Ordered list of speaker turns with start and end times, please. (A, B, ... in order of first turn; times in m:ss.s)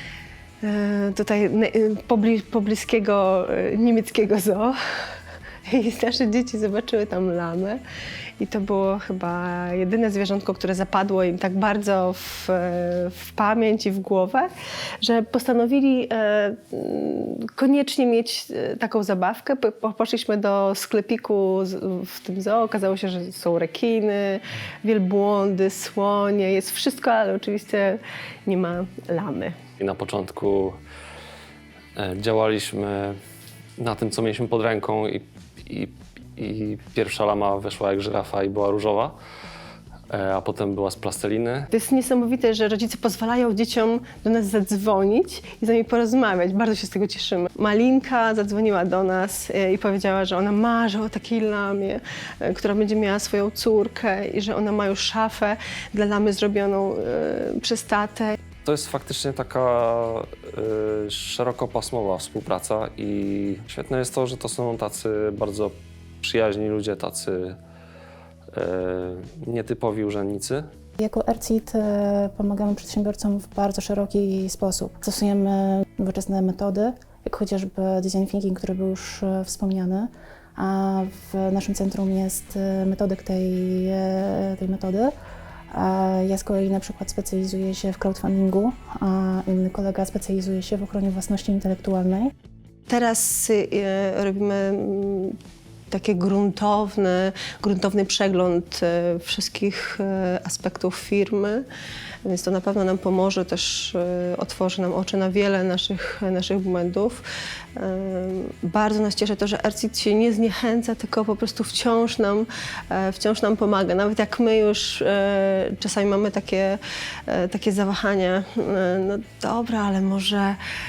0:00.6-0:04.8 A
0:05.6-0:07.8 A
0:08.4-0:14.5 A
0:15.0-0:29.6 A
0:29.8-0:30.8 B
0:32.0-0:33.2 B
0:33.8-0:39.1 B
0:40.1-0:41.7 B
0:41.7-0:58.3 A
0:58.6-1:07.6 B
1:08.5-1:10.6 B
1:11.0-1:25.1 C
1:25.7-1:32.3 C
1:32.9-1:35.3 A
1:35.9-1:41.6 A
1:42.2-1:47.2 A
1:47.8-2:00.6 A